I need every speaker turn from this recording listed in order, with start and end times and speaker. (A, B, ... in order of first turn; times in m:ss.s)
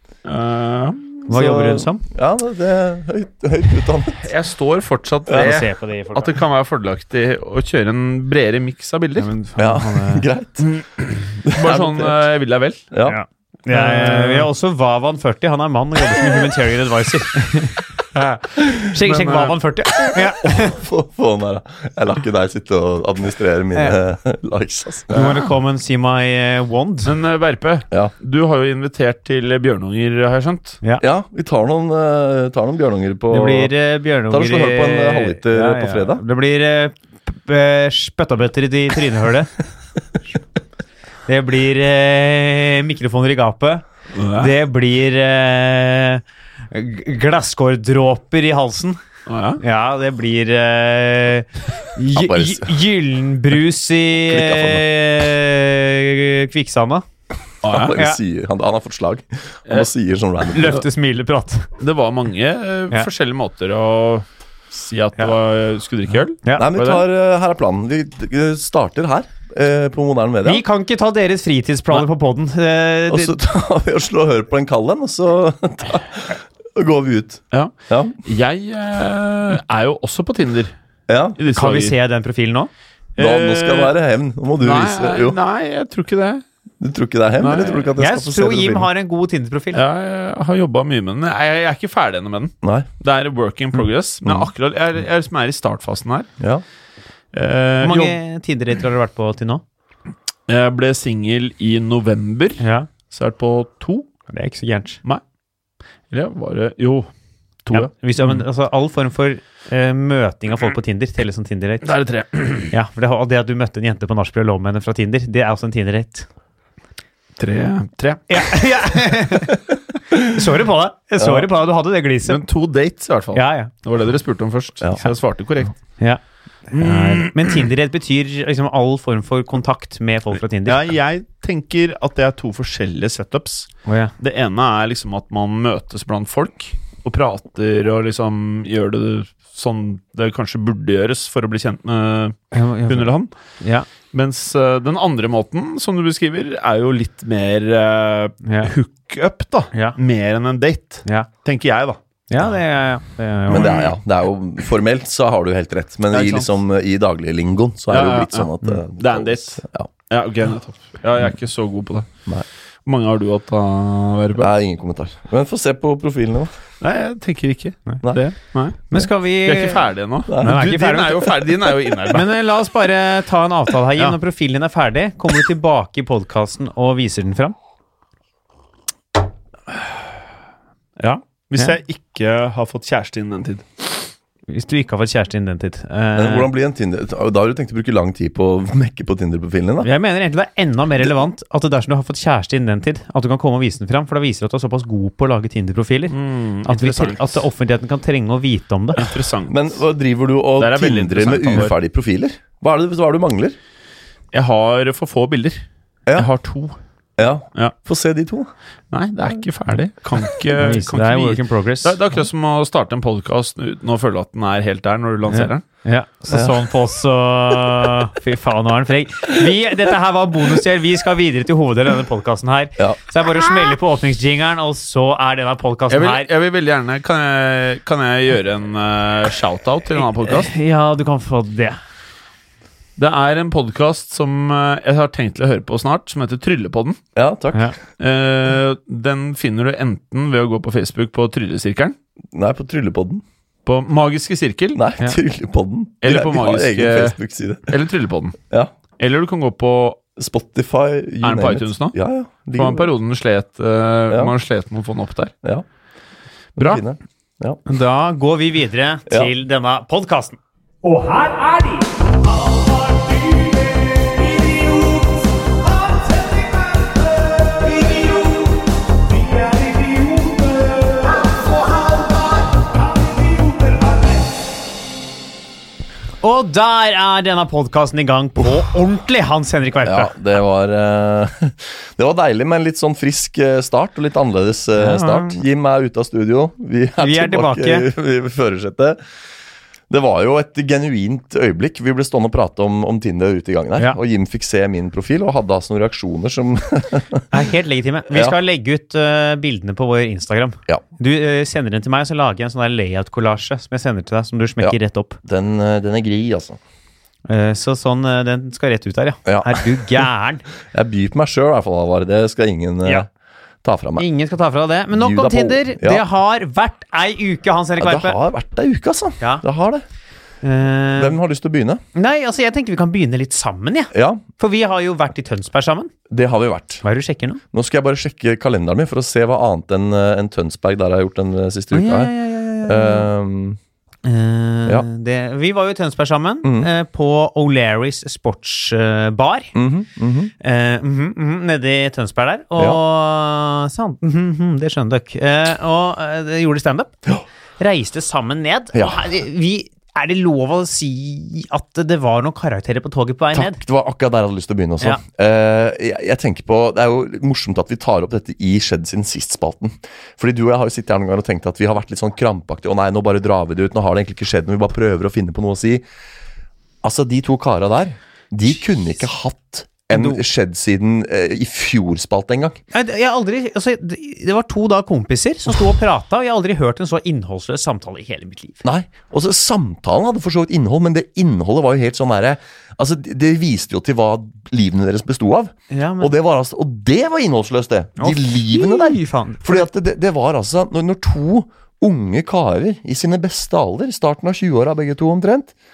0:00.2-0:01.2 A
0:01.3-0:02.0 B
0:01.3-0:04.2 C
0:04.2-0:09.3 A
0:05.3-0:06.4 B
0:09.2-0:10.3 B
0:09.6-0:10.7 C
0:10.6-0:12.8 A
0:11.4-0:12.2 C
0:12.9-0:13.2 C
0:13.0-0:18.0 B
0:13.7-0:14.5 A
0:18.2-0:19.6 A
0:18.6-0:20.8 B
0:20.3-0:25.2 C
0:25.1-0:27.1 B
0:25.1-0:25.5 A
0:27.0-0:30.8 A
0:31.0-0:33.7 C
0:33.3-0:39.5 B
0:34.3-0:36.2 C
0:41.3-0:49.0 B
0:44.1-0:44.5 A
0:49.3-0:49.6 A
0:49.6-0:57.0 B
0:52.1-0:52.8 C
0:54.2-0:54.9 C
0:57.6-0:58.0 A
0:57.6-1:00.8 C
0:57.9-0:58.2 B
1:00.5-1:01.7 B
1:01.8-1:07.0 A
1:06.6-1:10.6 C
1:10.4-1:13.4 B
1:13.1-1:18.2 C
1:17.5-1:20.7 A
1:21.1-1:21.4 C
1:21.4-1:22.0 A
1:21.5-1:22.7 B
1:23.2-1:24.0 A
1:23.2-1:25.4 C
1:24.6-1:26.4 A
1:26.8-1:28.9 C
1:27.4-1:27.9 A
1:28.0-1:29.8 B
1:29.7-1:36.3 A
1:34.2-1:34.5 C
1:37.3-1:38.2 A
1:37.8-1:39.6 B
1:40.5-1:44.1 A
1:42.6-1:42.9 B
1:44.3-1:45.0 B
1:46.1-1:47.1 A
1:47.7-1:48.4 A
1:47.7-1:51.9 B
1:51.8-1:52.7 A
1:52.7-1:56.3 B
1:57.4-1:58.5 A
1:58.3-2:02.4 B
2:01.2-2:01.5 C
2:02.2-2:05.7 A
2:03.3-2:03.7 B
2:06.0-2:10.8 B
2:06.7-2:07.7 A
2:10.6-2:23.3 A
2:13.9-2:14.1 B
2:22.5-2:23.9 B
2:24.1-2:32.5 A
2:28.4-2:28.7 B
2:32.3-2:33.8 B
2:33.5-2:39.9 C
2:33.5-2:33.9 A
2:36.1-2:36.5 A
2:37.9-2:42.1 A
2:42.9-2:44.5 A
2:44.4-2:46.5 C
2:46.8-2:48.9 A
2:48.9-2:51.3 B
2:49.4-2:52.3 A
2:50.3-2:50.6 C
2:52.1-2:57.6 B
3:01.0-3:03.9 A
3:04.5-3:06.5 B
3:06.2-3:09.9 C
3:09.8-3:19.2 B
3:16.1-3:17.4 A
3:19.0-3:19.8 A
3:19.5-3:23.6 C
3:20.6-3:21.8 A
3:24.3-3:26.8 A
3:27.2-3:28.5 C
3:28.9-3:35.6 A
3:30.6-3:32.0 B
3:35.3-3:46.3 B
3:36.3-3:36.6 C
3:45.9-3:50.5 A
3:50.1-3:51.8 B
3:53.0-3:57.0 A
3:57.2-3:57.7 C
3:58.0-4:02.0 A
4:02.3-4:03.2 C
4:03.7-4:04.8 A
4:04.8-4:07.7 C
4:06.0-4:07.2 A
4:07.7-4:08.4 A
4:09.0-4:10.0 A
4:10.2-4:12.9 C
4:11.2-4:12.0 A
4:12.6-4:15.3 A
4:16.6-4:17.6 C
4:16.6-4:16.8 A
4:17.7-4:21.9 B
4:23.2-4:32.3 B
4:36.2-4:40.1 B
4:39.8-4:49.0 C
4:44.8-4:45.4 B
4:47.0-4:47.9 B
4:49.9-4:57.2 C
4:57.3-5:05.2 B
4:58.1-4:58.4 C
5:04.6-5:06.6 C
5:07.3-5:10.4 B
5:09.3-5:09.7 C
5:10.7-5:13.1 C
5:13.6-5:14.0 C
5:14.0-5:18.2 B
5:14.9-5:16.0 C
5:17.8-5:19.8 C
5:20.4-5:21.2 B
5:21.0-5:21.8 C
5:22.0-5:25.9 B
5:23.9-5:24.2 C
5:26.1-5:26.8 C
5:26.8-5:27.4 B
5:27.5-5:32.1 C
5:31.7-5:33.1 B
5:32.6-5:33.6 C
5:34.0-5:39.6 B
5:36.4-5:36.7 C
5:39.6-5:40.3 C
5:40.4-5:47.0 B
5:47.6-5:53.6 B
5:48.7-5:49.1 C
5:53.3-6:05.8 C
6:06.8-6:12.6 C
6:09.9-6:10.2 B
6:12.7-6:18.6 B
6:18.6-6:35.5 C
6:25.7-6:26.1 B
6:28.0-6:29.7 B